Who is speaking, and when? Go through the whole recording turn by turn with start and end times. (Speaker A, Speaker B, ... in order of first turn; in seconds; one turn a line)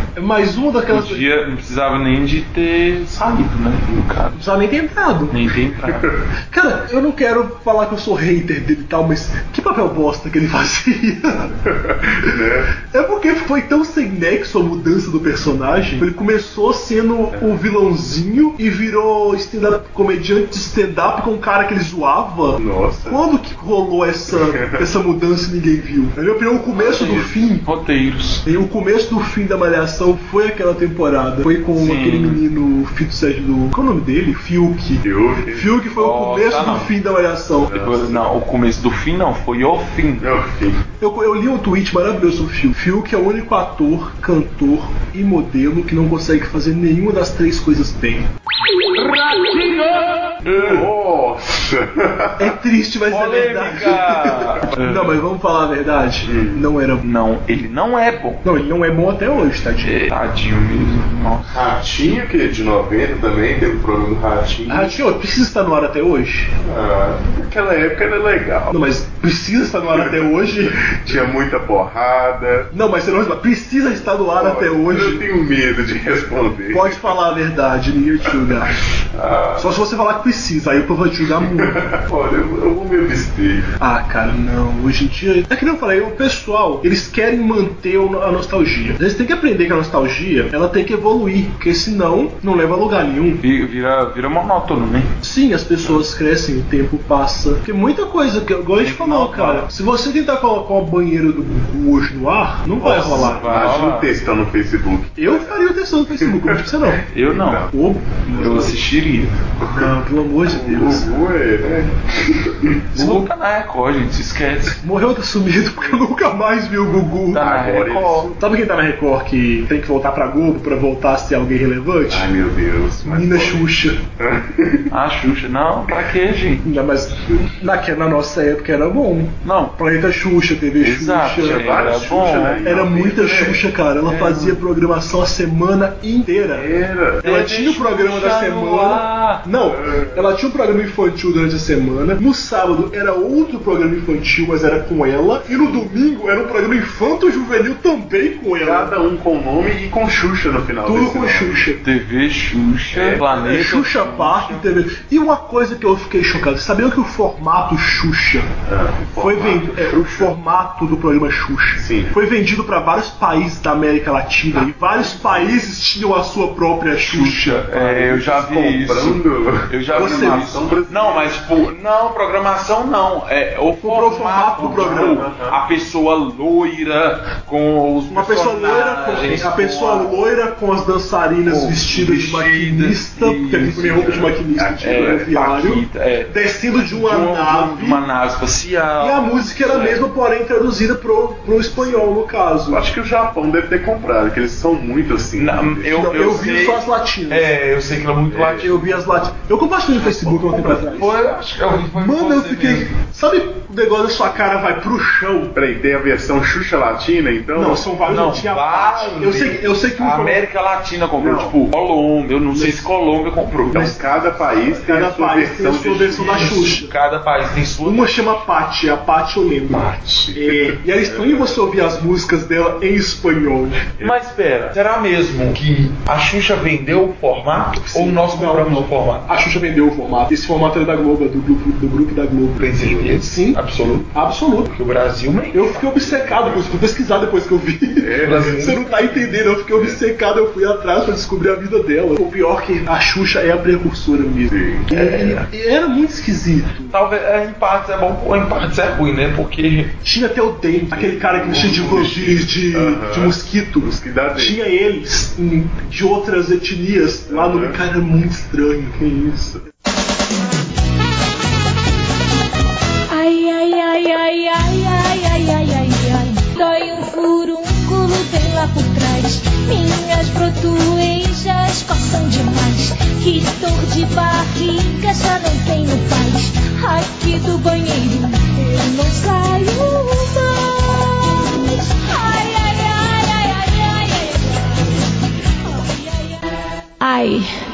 Speaker A: 0.1-1.2
Speaker B: 0.9-4.4
Speaker A: 4.3-5.3
Speaker B: 5.3-6.1
Speaker A: 6.5-11.5
Speaker C: 11.7-12.7
Speaker A: 12.9-27.6
Speaker C: 22.6-23.2
Speaker C: 24.4-24.8
Speaker B: 26.8-28.4
Speaker C: 26.9-27.2
Speaker A: 28.4-37.8
Speaker B: 31.7-32.4
Speaker C: 35.0-35.7
Speaker B: 35.9-36.9
Speaker C: 37.6-38.2
Speaker B: 37.7-40.3
Speaker C: 40.2-40.8
Speaker A: 41.0-48.3
Speaker B: 49.0-50.8
Speaker C: 50.5-52.4
Speaker A: 52.4-57.0
Speaker B: 53.1-55.2
Speaker C: 56.2-56.6
Speaker B: 57.0-58.4
Speaker A: 58.4-60.0
Speaker B: 59.8-61.5
Speaker C: 61.5-65.0
Speaker A: 64.7-66.5
Speaker C: 66.6-68.7
Speaker A: 68.7-70.8
Speaker C: 69.9-72.7
Speaker A: 72.7-75.2
Speaker C: 74.3-77.1
Speaker A: 76.7-78.7
Speaker C: 79.1-79.7
Speaker A: 79.6-81.8
Speaker C: 81.4-83.7
Speaker A: 83.8-93.4
Speaker B: 93.4-95.1
Speaker A: 95.2-103.4
Speaker B: 98.8-99.7
Speaker B: 102.8-104.1
Speaker C: 103.0-105.5
Speaker A: 105.2-107.0
Speaker C: 106.2-106.6
Speaker B: 107.1-107.7
Speaker C: 107.2-107.7
Speaker A: 107.7-108.7
Speaker B: 108.3-110.0
Speaker C: 108.3-108.8
Speaker C: 109.6-109.9
Speaker A: 109.7-111.1
Speaker C: 110.5-112.8
Speaker B: 112.9-114.8
Speaker A: 113.0-113.2
Speaker A: 114.8-117.4
Speaker B: 117.3-118.3
Speaker C: 117.4-118.3
Speaker A: 118.4-122.3
Speaker C: 122.1-123.7
Speaker A: 123.0-124.0
Speaker C: 124.2-124.9
Speaker B: 124.9-126.6
Speaker A: 126.6-131.8
Speaker B: 129.4-129.7
Speaker B: 130.8-132.6
Speaker C: 131.4-133.6
Speaker A: 132.6-136.7
Speaker B: 134.1-134.6
Speaker C: 136.5-137.3
Speaker B: 137.2-139.4
Speaker A: 137.2-148.9
Speaker C: 139.7-140.2
Speaker C: 148.6-151.6
Speaker A: 150.8-151.8
Speaker B: 151.8-154.7
Speaker C: 152.9-153.2
Speaker A: 153.3-158.5
Speaker C: 158.7-160.3
Speaker A: 159.2-167.9
Speaker C: 161.8-162.1
Speaker C: 165.0-165.5
Speaker B: 167.0-169.2
Speaker C: 167.7-171.4
Speaker B: 169.7-180.2
Speaker A: 169.9-170.5
Speaker A: 173.8-175.2
Speaker C: 174.6-175.6
Speaker A: 178.1-188.0
Speaker B: 181.4-184.3
Speaker C: 183.9-185.3
Speaker B: 184.8-190.0
Speaker A: 189.0-192.8
Speaker C: 191.8-192.0
Speaker C: 192.7-196.6
Speaker B: 195.3-199.1
Speaker A: 195.9-197.5
Speaker C: 198.3-198.8
Speaker A: 198.6-201.1
Speaker B: 200.2-202.9
Speaker C: 200.3-201.1
Speaker A: 201.9-205.5
Speaker C: 205.5-207.9
Speaker A: 207.5-210.4
Speaker B: 208.1-213.9
Speaker C: 211.2-211.6
Speaker A: 212.5-212.8
Speaker C: 213.7-216.7
Speaker A: 213.7-216.9
Speaker B: 216.1-218.4
Speaker A: 217.8-223.9
Speaker C: 219.7-221.6
Speaker B: 224.0-229.3
Speaker A: 227.8-233.6
Speaker B: 232.6-234.1
Speaker A: 234.1-234.7
Speaker B: 234.7-236.0
Speaker A: 235.5-246.9
Speaker C: 236.0-236.7
Speaker C: 238.0-238.7
Speaker B: 238.2-239.4
Speaker C: 244.5-244.9
Speaker B: 244.9-245.5
Speaker B: 246.9-249.9
Speaker A: 250.0-259.5
Speaker C: 250.9-254.6
Speaker C: 257.3-257.8
Speaker D: 263.1-285.0
Speaker D: 285.6-286.4
Speaker D: 287.0-287.6